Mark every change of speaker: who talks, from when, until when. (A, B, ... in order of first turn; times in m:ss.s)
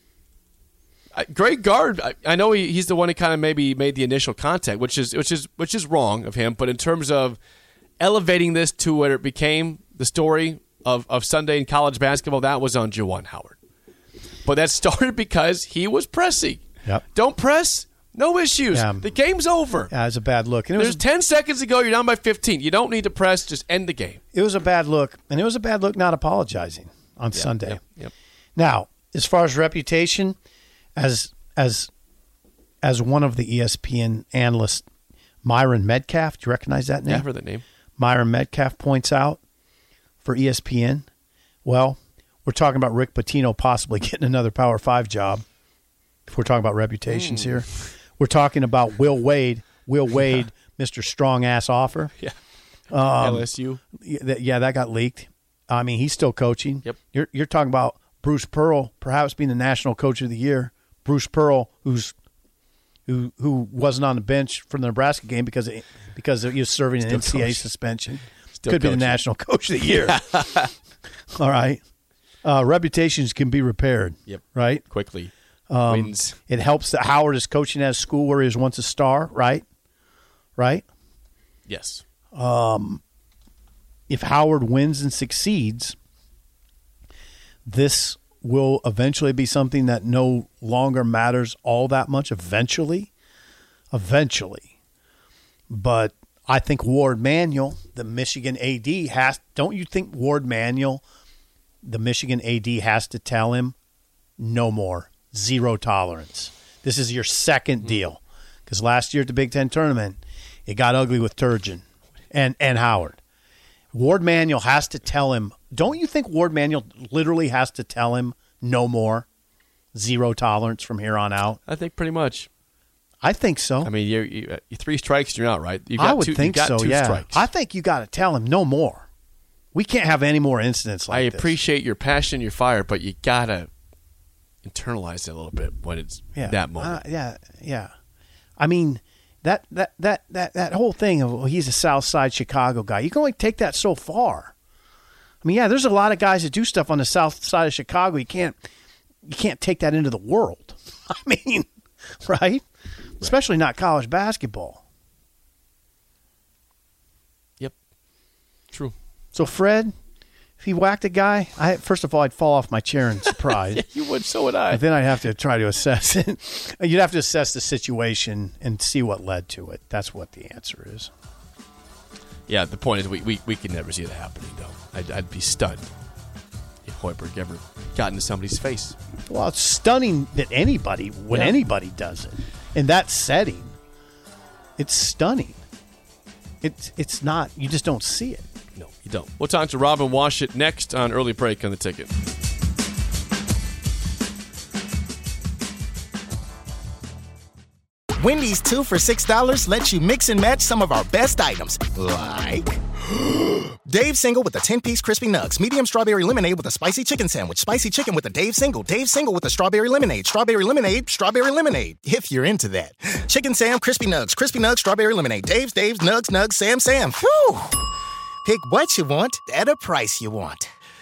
0:01.1-0:07.4 A
0:08.0-0:13.6 A
0:14.4-0:19.9 A
0:18.7-0:19.2 B
0:19.9-0:21.0 B
0:20.8-0:24.2 A
0:24.3-0:27.8 B
0:27.3-0:28.1 A
0:28.6-0:30.4 B
0:31.0-0:31.9 B
0:32.8-0:34.9 B
0:35.4-0:37.3 B
0:37.1-0:37.6 A
0:38.0-0:39.4 B
0:40.2-0:41.1 B
0:41.6-0:45.4 B
0:46.3-0:52.1 B
0:47.1-0:47.6 A
0:52.9-1:02.1 B
0:53.0-0:53.8 A
1:03.1-1:10.5 B
1:07.0-1:07.7 A
1:08.6-1:09.2 A
1:09.9-1:10.7 A
1:11.4-1:11.8 B
1:12.4-1:14.8 B
1:14.3-1:15.3 A
1:15.7-1:19.6 B
1:15.9-1:16.4 A
1:20.6-1:20.8 B
1:21.7-1:22.0 A
1:22.3-1:23.0 B
1:24.1-1:26.0 B
1:27.7-1:33.1 B
1:33.9-1:34.7 B
1:35.7-1:41.0 B
1:41.8-1:43.8 B
1:44.4-1:53.2 B
1:53.9-1:59.3 B
2:00.0-2:01.6 B
2:01.7-2:02.5 A
2:03.2-2:03.9 B
2:03.8-2:07.5 A
2:06.0-2:09.1 B
2:09.7-2:11.6 B
2:11.1-2:13.7 A
2:14.6-2:17.0 A
2:16.4-2:17.9 B
2:18.6-2:24.5 B
2:25.4-2:28.6 B
2:29.3-2:31.7 B
2:32.2-2:32.6 B
2:33.2-2:34.8 B
2:39.3-2:39.9 B
2:40.6-2:43.8 B
2:43.3-2:44.8 A
2:44.7-2:51.1 B
2:52.5-2:55.9 A
2:56.8-2:59.0 A
2:59.3-3:03.8 B
3:01.3-3:01.6 A
3:04.8-3:05.6 B
3:06.6-3:08.5 B
3:08.8-3:12.2 A
3:18.2-3:37.8 C
3:38.4-3:40.7 C